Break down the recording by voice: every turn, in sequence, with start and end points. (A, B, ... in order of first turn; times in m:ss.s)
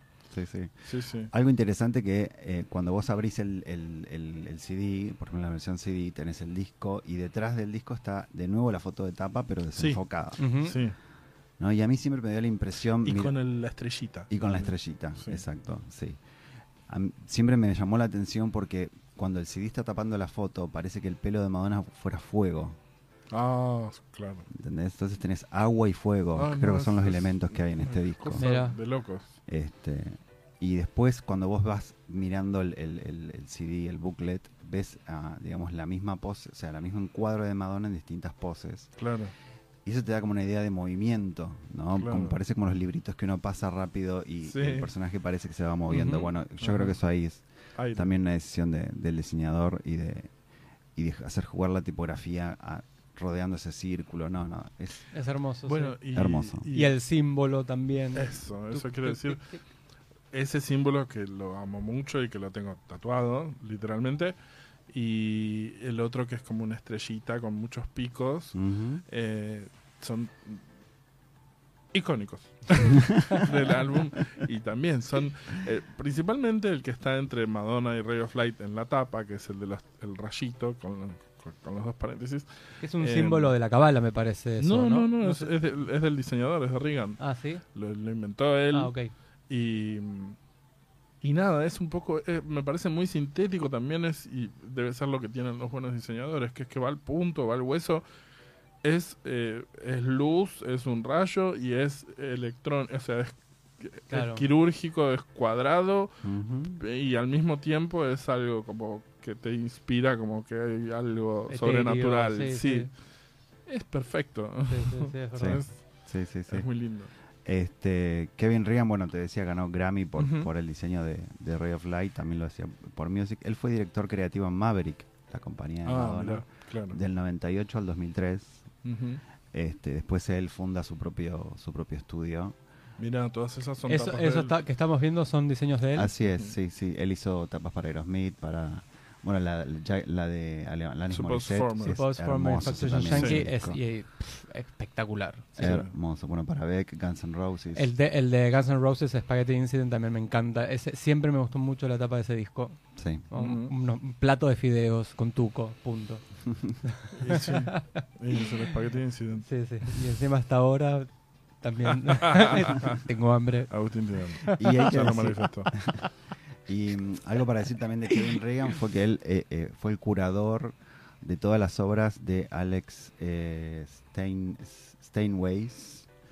0:00.3-0:10.5 A
0:00.8-0:01.3 B
0:09.7-0:10.0 B
0:10.4-0:10.8 C
0:10.6-0:11.0 B
0:11.6-0:13.3 A
0:13.0-0:15.4 B
0:14.3-0:16.2 A
0:16.9-0:22.8 A
0:23.3-0:24.4 B
0:24.5-0:28.4 A
0:26.3-0:29.3 B
0:28.4-0:28.8 C
0:29.5-0:38.9 A
0:39.0-0:39.3 B
0:39.8-0:50.3 A
0:42.0-0:42.4 B
0:44.4-0:44.9 B
0:45.9-0:46.3 C
0:46.6-0:46.9 B
0:47.7-0:48.1 B
0:50.9-0:55.0 A
0:55.1-0:56.0 C
0:55.6-0:57.0 B
0:56.1-0:56.7 A
0:56.7-0:59.6 C
0:58.1-0:59.4 B
1:00.3-1:04.4 B
1:04.9-1:10.6 B
1:08.5-1:09.0 A
1:11.9-1:23.5 B
1:22.8-1:25.5 C
1:24.6-1:27.2 B
1:27.2-1:27.6 C
1:27.7-1:28.9 B
1:28.7-1:29.1 C
1:29.5-1:30.4 B
1:31.2-1:38.0 B
1:38.8-1:46.2 B
1:44.1-1:44.4 C
1:46.2-1:46.8 A
1:46.7-1:52.9 B
1:51.5-1:52.9 C
1:53.6-1:57.1 B
1:54.7-1:55.6 C
1:55.4-1:56.7 A
1:57.4-2:08.7 A
2:00.2-2:00.5 B
2:05.8-2:07.0 B
2:08.8-2:09.2 B
2:09.5-2:12.6 A
2:13.0-2:14.5 B
2:13.9-2:16.1 C
2:15.9-2:23.8 A
2:21.1-2:22.0 B
2:21.9-2:25.7 C
2:23.0-2:23.4 B
2:25.6-2:25.9 B
2:25.6-2:27.9 A
2:27.7-2:32.8 C
2:33.0-2:33.2 A
2:33.3-2:36.2 C
2:33.4-2:33.7 B
2:36.8-2:38.0 C
2:37.1-2:40.0 B
2:39.5-2:41.1 C
2:41.6-2:43.7 C
2:42.0-2:43.0 B
2:43.7-2:45.7 B
2:44.6-2:46.0 A
2:46.7-2:56.1 A